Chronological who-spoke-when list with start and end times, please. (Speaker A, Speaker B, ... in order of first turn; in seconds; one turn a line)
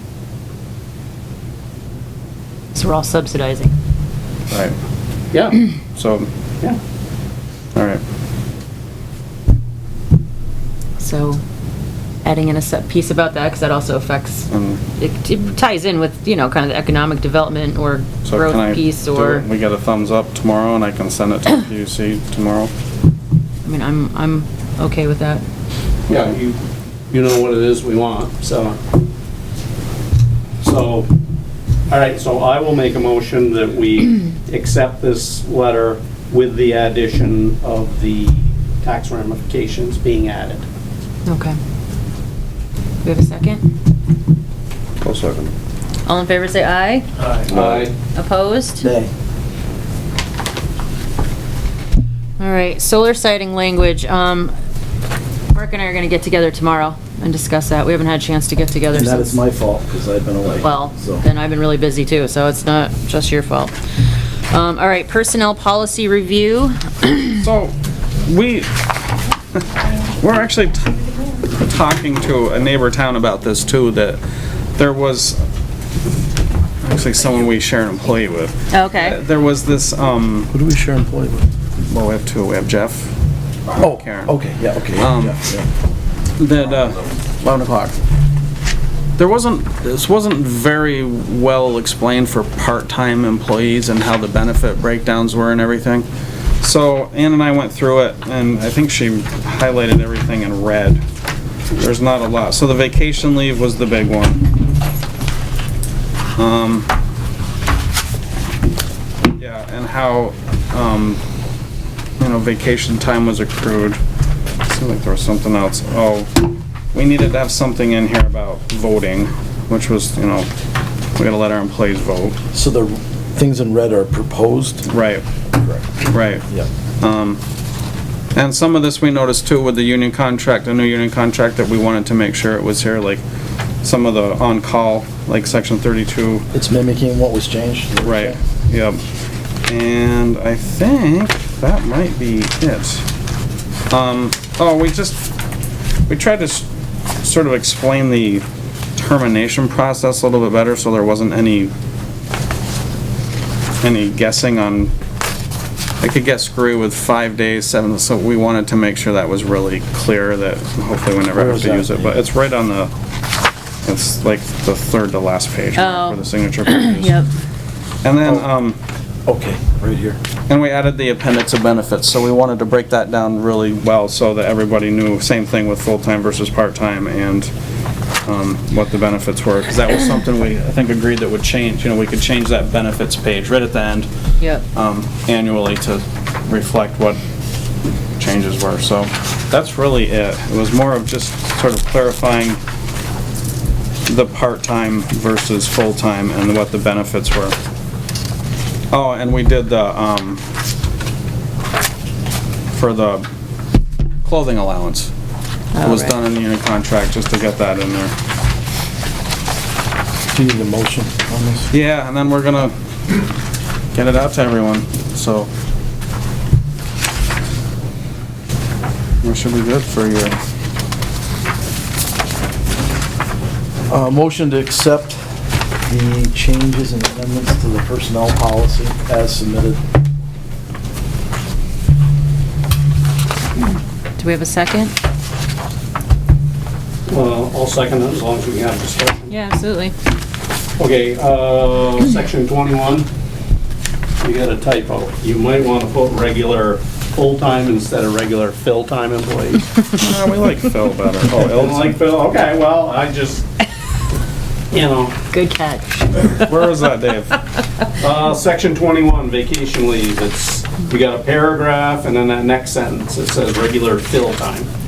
Speaker A: 2.8-3.8
Speaker B: 4.5-4.8
Speaker C: 5.3-5.6
Speaker B: 6.0-6.3
Speaker B: 7.8-8.0
Speaker A: 11.0-11.4
Speaker A: 12.2-19.4
Speaker B: 14.5-14.8
Speaker B: 18.2-22.7
Speaker A: 23.6-25.4
Speaker C: 26.1-28.8
Speaker C: 30.6-31.1
Speaker C: 31.9-40.6
Speaker A: 41.3-41.6
Speaker A: 43.0-43.7
Speaker B: 45.0-45.5
Speaker A: 46.1-47.1
Speaker C: 47.5-48.0
Speaker B: 47.5-47.8
Speaker A: 48.1-48.9
Speaker D: 48.8-49.1
Speaker A: 52.4-54.5
Speaker A: 55.5-59.4
Speaker D: 58.9-61.2
Speaker A: 60.6-63.7
Speaker A: 64.5-67.5
Speaker B: 67.4-68.9
Speaker B: 69.6-74.2
Speaker B: 74.7-75.4
Speaker B: 76.8-80.5
Speaker A: 78.7-79.2
Speaker D: 80.5-81.5
Speaker B: 81.9-83.1
Speaker B: 83.8-84.4
Speaker D: 83.8-85.7
Speaker B: 85.0-85.4
Speaker B: 86.4-87.9
Speaker B: 89.2-96.1
Speaker B: 96.6-101.0
Speaker B: 101.8-104.5
Speaker B: 106.4-106.9
Speaker B: 109.4-111.2
Speaker B: 112.2-114.0
Speaker B: 114.7-120.5
Speaker B: 121.2-122.4
Speaker D: 122.5-124.9
Speaker B: 124.9-125.2
Speaker D: 125.5-125.8
Speaker B: 126.1-126.5
Speaker B: 127.0-127.4
Speaker B: 128.3-133.2
Speaker B: 133.8-136.5
Speaker D: 136.5-138.4
Speaker B: 138.0-139.0
Speaker B: 139.7-143.1
Speaker B: 143.9-145.3
Speaker B: 146.1-146.7
Speaker B: 147.2-148.4
Speaker B: 149.0-151.7
Speaker B: 153.8-154.9
Speaker B: 156.0-162.9
Speaker D: 161.3-162.2
Speaker B: 163.8-167.2
Speaker A: 165.8-167.3
Speaker B: 168.0-168.8
Speaker D: 168.2-168.5
Speaker D: 169.3-170.2
Speaker B: 170.5-177.5
Speaker B: 178.2-184.1
Speaker A: 184.4-184.7
Speaker B: 184.7-187.2
Speaker B: 188.2-192.6
Speaker B: 194.1-197.6
Speaker B: 198.9-200.4
Speaker B: 202.7-203.3
Speaker B: 204.2-205.1
Speaker A: 205.7-206.2
Speaker B: 205.8-208.1
Speaker D: 210.3-211.7
Speaker B: 211.7-212.8
Speaker B: 213.9-215.5
Speaker B: 219.2-220.4
Speaker D: 223.9-225.2
Speaker D: 225.8-229.8
Speaker A: 234.2-234.9
Speaker C: 237.1-239.3
Speaker A: 239.3-239.9
Speaker C: 240.8-243.1
Speaker C: 244.2-249.7
Speaker B: 249.9-252.0
Speaker C: 251.3-253.5
Speaker C: 254.7-255.2
Speaker A: 255.3-256.7
Speaker B: 256.3-257.4
Speaker C: 258.0-264.7